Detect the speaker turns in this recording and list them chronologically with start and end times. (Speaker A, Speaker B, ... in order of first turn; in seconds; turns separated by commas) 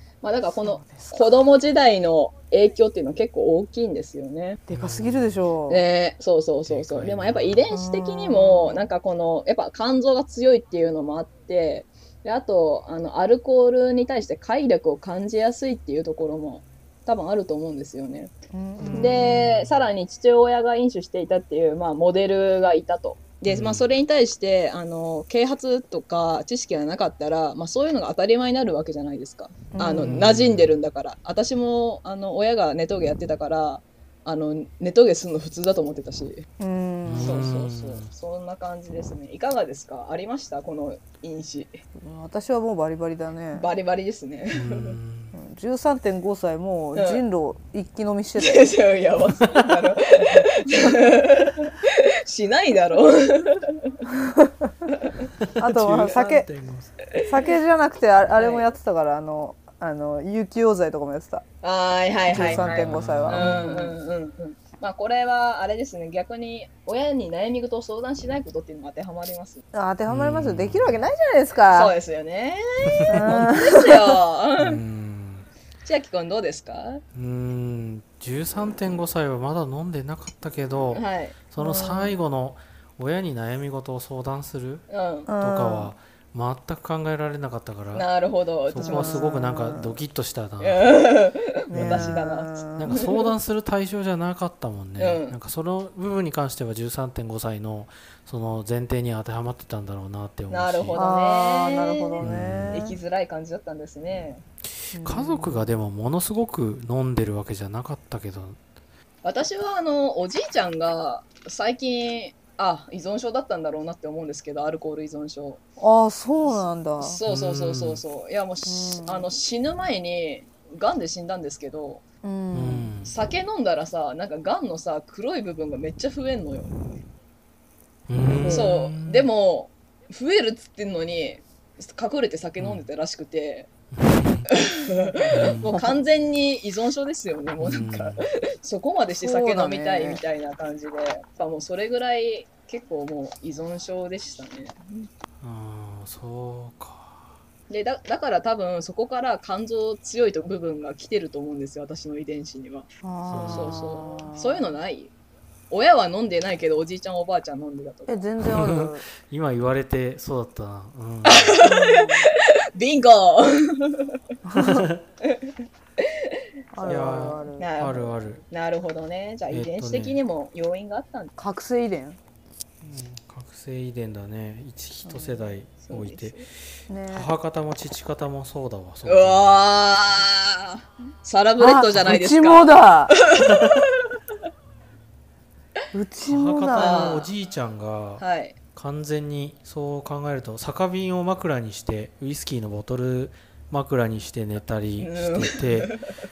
Speaker A: 0.2-4.6, Speaker B: 0.5-1.5, Speaker B: 4.7-5.8, Speaker C: 4.7-5.4, Speaker A: 5.7-18.3, Speaker C: 6.7-7.7, Speaker B: 7.7-8.9, Speaker B: 18.5-19.6, Speaker C: 18.8-19.7, Speaker A: 18.9-36.5, Speaker C: 23.5-23.9, Speaker B: 29.7-30.2, Speaker C: 29.9-30.7, Speaker B: 36.6-37.4, Speaker C: 37.0-38.1, Speaker A: 37.1-41.7, Speaker B: 42.0-43.7, Speaker A: 43.5-45.0, Speaker C: 44.5-45.3, Speaker B: 45.3-48.8, Speaker A: 46.9-47.2, Speaker A: 48.4-54.0, Speaker C: 49.4-49.7, Speaker B: 54.1-54.9, Speaker C: 55.4-56.9, Speaker B: 55.6-56.5, Speaker B: 57.1-61.4, Speaker A: 58.3-58.7, Speaker A: 61.6-69.6, Speaker C: 62.3-63.8, Speaker B: 62.3-64.0, Speaker B: 69.7-71.9, Speaker C: 70.1-71.0, Speaker A: 71.7-74.8, Speaker C: 72.9-73.3, Speaker B: 73.1-74.1, Speaker C: 74.6-75.5, Speaker A: 75.8-77.0, Speaker C: 77.1-84.8, Speaker A: 80.9-81.4, Speaker B: 81.6-82.2, Speaker A: 84.9-85.3, Speaker B: 85.3-85.9, Speaker C: 85.4-88.1, Speaker A: 87.9-89.2, Speaker C: 88.7-90.8, Speaker B: 88.8-90.0, Speaker A: 90.6-93.3, Speaker B: 91.7-92.9, Speaker C: 91.7-92.1, Speaker C: 92.8-101.0, Speaker A: 95.0-95.3, Speaker A: 100.5-104.4, Speaker B: 100.9-103.0, Speaker C: 102.2-102.8, Speaker C: 104.9-108.6, Speaker B: 104.9-105.7, Speaker A: 109.2-115.6, Speaker B: 115.8-117.2, Speaker A: 117.0-122.0, Speaker C: 117.2-118.0, Speaker B: 118.7-119.3, Speaker B: 122.2-122.9, Speaker C: 122.5-123.1, Speaker A: 123.0-126.8, Speaker C: 128.1-129.3, Speaker B: 128.4-128.7, Speaker A: 128.5-133.7, Speaker C: 132.6-132.8, Speaker C: 133.9-134.5, Speaker A: 134.5-145.1, Speaker B: 134.9-136.0, Speaker C: 135.3-135.7, Speaker C: 137.6-138.2, Speaker B: 139.1-140.2, Speaker C: 145.4-147.3, Speaker A: 147.7-152.9, Speaker B: 153.0-154.7, Speaker C: 153.3-154.0, Speaker A: 153.4-155.1, Speaker A: 155.7-158.2, Speaker B: 158.1-159.1, Speaker C: 158.4-161.6, Speaker A: 161.2-164.2, Speaker B: 161.6-162.3, Speaker B: 164.4-164.9, Speaker C: 164.5-165.0, Speaker A: 165.2-166.4, Speaker B: 166.7-167.7, Speaker C: 166.8-168.4, Speaker A: 167.6-171.3, Speaker C: 169.5-170.2, Speaker B: 171.4-172.2, Speaker C: 172.8-176.4, Speaker B: 175.0-175.5, Speaker A: 175.8-176.4, Speaker B: 176.9-177.3, Speaker C: 177.1-179.6, Speaker A: 179.1-184.1, Speaker B: 181.6-183.2, Speaker C: 183.4-183.8, Speaker B: 185.9-187.2, Speaker C: 186.2-188.2, Speaker A: 186.8-187.3, Speaker A: 188.2-188.6, Speaker C: 188.7-195.9, Speaker A: 195.0-196.0